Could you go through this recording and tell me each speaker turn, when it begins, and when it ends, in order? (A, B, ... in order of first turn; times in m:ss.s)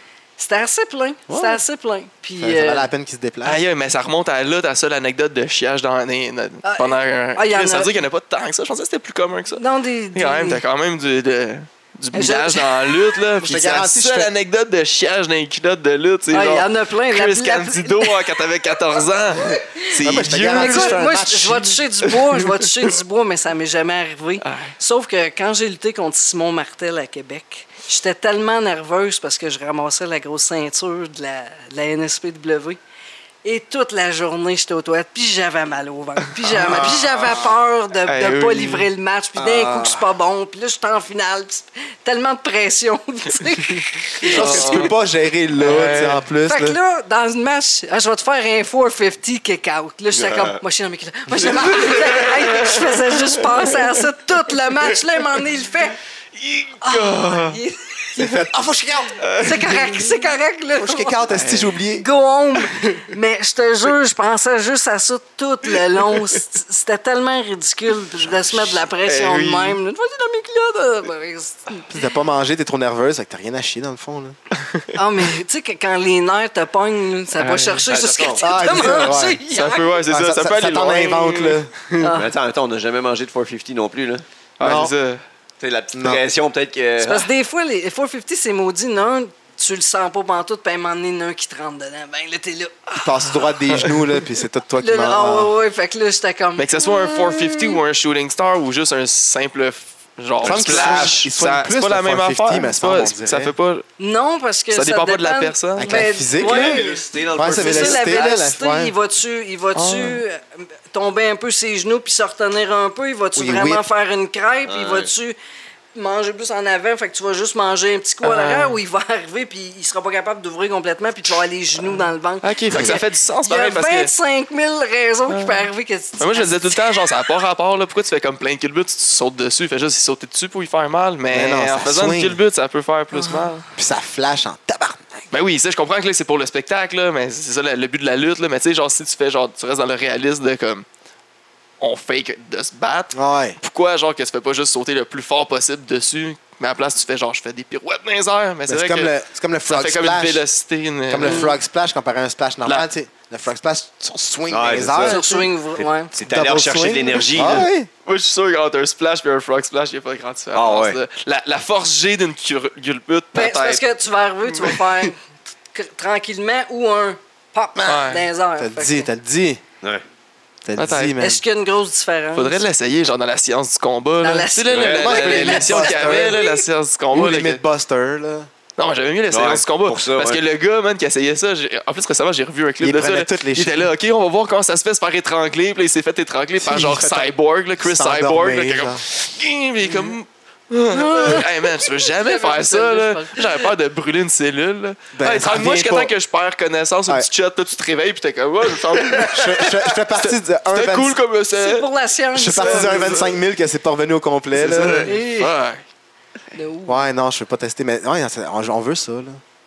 0:00.4-0:02.9 A
0:01.3-0:01.6 B
0:02.4-0:03.6 B
0:03.4-0:09.6 C
0:06.6-0:08.0 A
0:09.6-0:10.6 A
0:10.1-0:21.0 C
0:12.1-0:13.2 A
0:13.4-0:14.3 B
0:16.3-0:18.4 A
0:20.0-0:21.7 B
0:20.5-0:32.8 A
0:22.0-0:22.9 C
0:24.4-0:24.7 C
0:33.4-0:44.9 A
0:36.4-0:37.4 C
0:38.0-0:38.9 C
0:39.4-0:40.1 B
0:44.2-0:44.9 C
0:44.3-0:46.8 B
0:45.6-0:46.2 C
0:46.4-0:56.0 A
0:50.1-0:50.6 D
0:51.3-0:54.0 C
0:54.8-0:55.4 C
0:56.3-0:57.6 C
0:56.8-0:58.4 A
0:58.2-0:58.5 C
0:58.2-0:59.3 B
0:59.2-1:00.1 C
0:59.4-1:01.2 A
1:00.8-1:02.1 B
1:01.3-1:01.7 C
1:01.9-1:11.9 A
1:02.8-1:03.0 C
1:06.0-1:06.4 C
1:09.0-1:09.8 C
1:11.9-1:14.4 B
1:14.6-1:14.9 C
1:14.9-1:20.0 A
1:17.4-1:17.8 C
1:17.9-1:19.0 D
1:18.4-1:19.4 B
1:19.5-1:22.1 C
1:20.1-1:21.7 B
1:22.0-1:22.3 A
1:22.1-1:24.2 D
1:24.6-1:25.2 C
1:24.6-1:24.9 B
1:25.6-1:27.3 D
1:25.9-1:26.2 B
1:27.0-1:33.4 A
1:33.0-1:35.5 B
1:33.7-1:34.0 C
1:34.8-1:37.8 A
1:36.6-1:43.8 C
1:40.4-1:41.1 D
1:40.4-1:43.5 B
1:44.0-1:55.4 A
1:44.7-1:46.1 C
1:45.8-1:48.9 B
1:46.3-1:48.3 D
1:49.7-1:50.2 C
1:53.4-1:53.8 B
1:54.6-1:55.1 D
1:55.9-2:07.1 A
1:58.2-1:58.8 C
2:01.9-2:04.1 C
2:02.7-2:03.0 B
2:05.3-2:05.6 C
2:06.2-2:13.6 C
2:11.3-2:12.4 B
2:13.1-2:13.6 A
2:13.7-2:15.3 B
2:15.3-2:20.8 C
2:21.8-2:29.1 C
2:23.1-2:23.6 B
2:28.7-2:30.4 B
2:29.7-2:31.5 C
2:31.1-2:35.4 B
2:31.2-2:31.6 A
2:34.5-2:37.7 D
2:35.0-2:36.1 A
2:36.1-2:37.9 B
2:38.0-2:43.8 C
2:40.5-2:41.0 D
2:43.3-2:45.2 A
2:44.5-2:45.1 C
2:45.7-2:49.1 A
2:47.8-2:48.0 B
2:47.8-2:48.3 C
2:48.6-2:49.6 B
2:50.6-2:51.4 B
2:50.8-2:51.2 C
2:51.2-2:52.6 A
2:52.3-2:57.6 C
2:54.2-2:56.6 A
2:54.7-2:55.5 D
2:55.0-2:56.4 B
2:57.1-2:58.5 B
2:58.8-3:21.9 C
2:59.3-3:00.4 D
3:02.8-3:03.9 B
3:06.6-3:09.0 B
3:10.9-3:13.6 A
3:15.1-3:16.1 B
3:19.2-3:21.2 B
3:21.5-3:23.3 A
3:22.3-3:25.1 B
3:22.6-3:23.3 C
3:24.5-3:25.8 C
3:25.0-3:25.5 A
3:26.5-3:27.0 A
3:26.8-3:29.4 B